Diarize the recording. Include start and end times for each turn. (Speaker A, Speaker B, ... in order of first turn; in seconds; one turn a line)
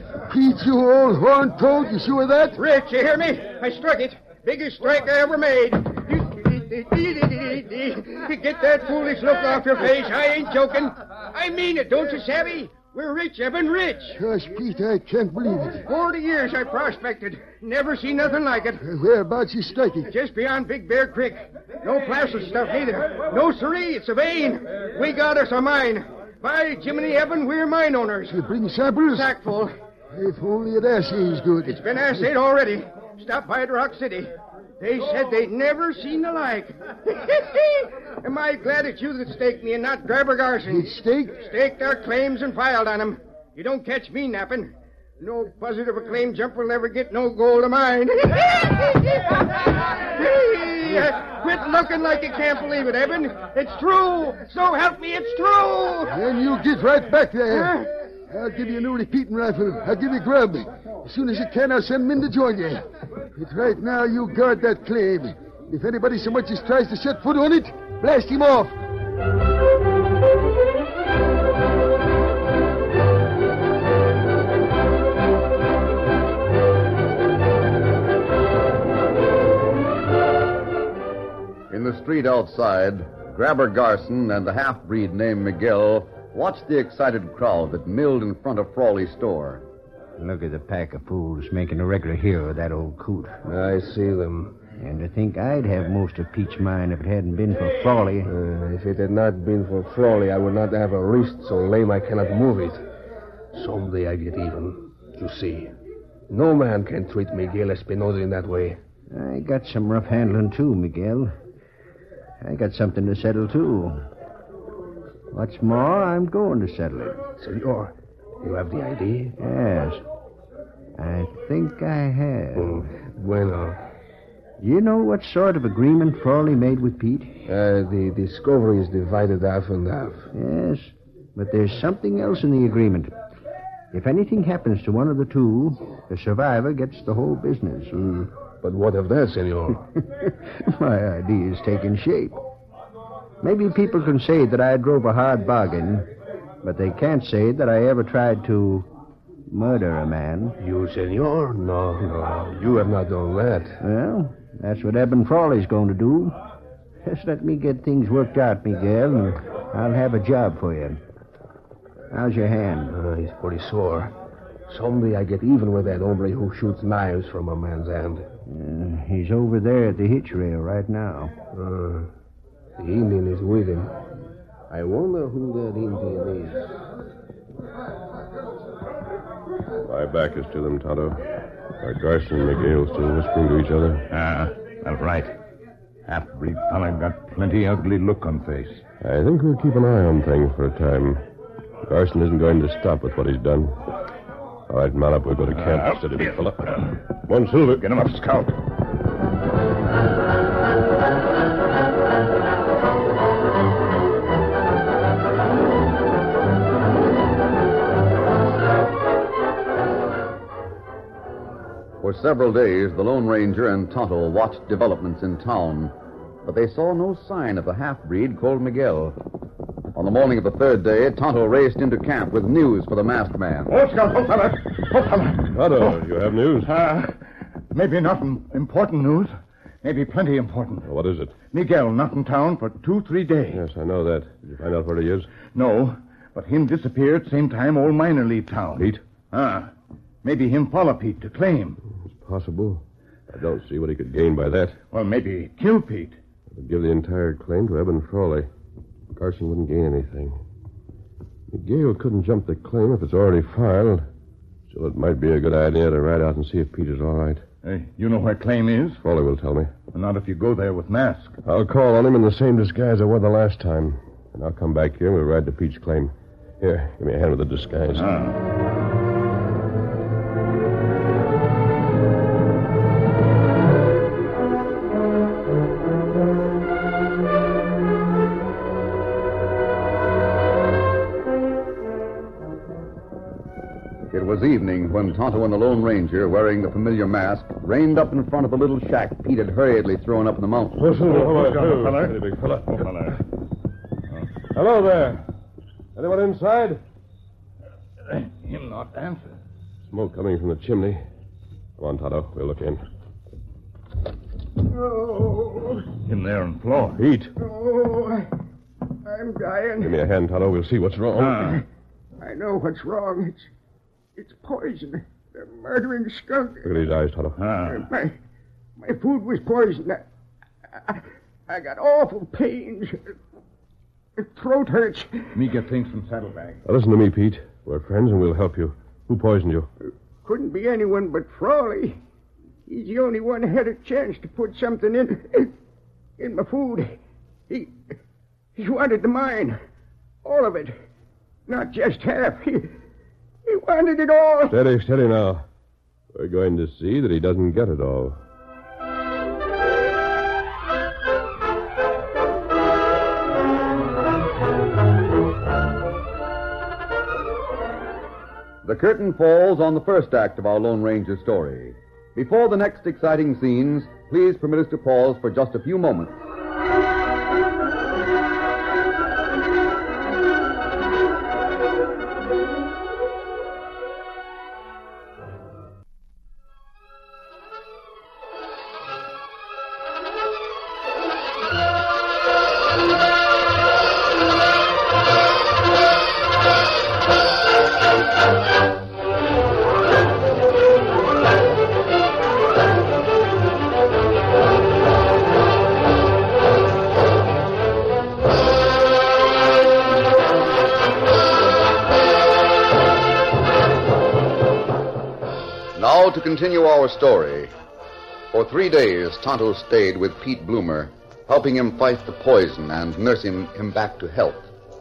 Speaker A: 0.3-2.6
Speaker B: 2.6-14.2
Speaker A: 14.1-15.8
Speaker B: 15.9-18.8
Speaker A: 18.8-20.1
Speaker B: 20.1-28.4
Speaker A: 28.3-29.3
Speaker B: 29.1-29.7
Speaker A: 30.1-31.8
Speaker B: 31.7-56.1
Speaker A: 40.7-41.5
Speaker A: 56.1-62.8
Speaker B: 57.5-57.9
Speaker A: 63.4-68.8
Speaker C: 81.7-89.6
Speaker D: 90.2-93.3
Speaker E: 93.5-94.6
Speaker D: 94.8-98.3
Speaker E: 98.2-102.8
Speaker E: 103.5-105.7
Speaker E: 106.3-108.8
Speaker D: 109.1-111.3
Speaker D: 112.4-114.0
Speaker D: 115.3-117.2
Speaker E: 117.4-119.3
Speaker D: 119.4-120.0
Speaker D: 121.0-122.9
Speaker E: 122.5-123.8
Speaker D: 124.6-127.3
Speaker E: 127.5-130.3
Speaker D: 130.3-133.1
Speaker D: 133.9-138.0
Speaker E: 137.9-139.8
Speaker D: 140.2-142.4
Speaker D: 143.4-146.1
Speaker D: 146.6-148.9
Speaker D: 149.5-150.6
Speaker E: 150.6-153.8
Speaker D: 153.8-156.4
Speaker D: 157.0-161.0
Speaker D: 162.1-162.9
Speaker E: 162.9-164.1
Speaker E: 164.7-168.2
Speaker D: 168.5-171.3
Speaker E: 171.5-172.1
Speaker E: 172.8-173.9
Speaker E: 174.7-176.7
Speaker F: 179.8-181.2
Speaker F: 181.8-184.1
Speaker G: 184.1-185.3
Speaker G: 186.1-188.8
Speaker F: 189.0-191.2
Speaker F: 191.9-193.8
Speaker F: 194.7-197.8
Speaker G: 195.5-196.9
Speaker G: 197.7-198.6
Speaker C: 212.0-215.9
Speaker C: 216.4-219.2
Speaker C: 219.9-223.7
Speaker G: 223.7-226.0
Speaker F: 225.5-226.7
Speaker G: 226.6-227.2
Speaker G: 227.7-233.6
Speaker F: 230.9-231.4
Speaker F: 233.5-235.3
Speaker G: 235.4-239.7
Speaker F: 238.8-239.0
Speaker G: 240.2-241.8
Speaker F: 241.9-244.8
Speaker G: 244.9-246.2
Speaker F: 246.5-248.5
Speaker F: 249.2-250.4
Speaker F: 251.5-254.1
Speaker F: 254.7-257.4
Speaker G: 257.6-259.0
Speaker F: 259.0-259.8
Speaker G: 259.9-261.4
Speaker F: 261.4-268.1
Speaker G: 267.9-268.4
Speaker C: 284.1-290.9
Speaker F: 290.8-292.9
Speaker G: 291.0-293.2
Speaker F: 294.5-295.2
Speaker F: 296.0-296.8
Speaker G: 298.1-299.4
Speaker F: 299.9-301.0
Speaker F: 301.8-302.8
Speaker B: 304.8-305.8
Speaker G: 306.0-307.0
Speaker F: 307.0-307.3
Speaker B: 307.4-308.3
Speaker B: 309.1-309.9
Speaker F: 309.8-311.6
Speaker G: 311.2-311.6
Speaker B: 312.2-313.5
Speaker B: 314.2-316.7
Speaker F: 316.6-317.4
Speaker G: 317.4-317.9
Speaker B: 317.7-318.1
Speaker B: 318.8-320.0
Speaker B: 320.8-323.0
Speaker B: 324.2-325.3
Speaker G: 325.3-326.6
Speaker F: 326.7-329.7
Speaker B: 330.2-332.0
Speaker B: 332.7-335.5
Speaker B: 336.2-337.0
Speaker B: 338.6-339.6
Speaker B: 340.2-340.8
Speaker B: 341.5-342.7
Speaker B: 343.5-344.6
Speaker F: 344.5-345.4
Speaker F: 346.1-348.2
Speaker C: 358.6-366.2
Speaker C: 405.8-407.5
Speaker C: 408.3-414.5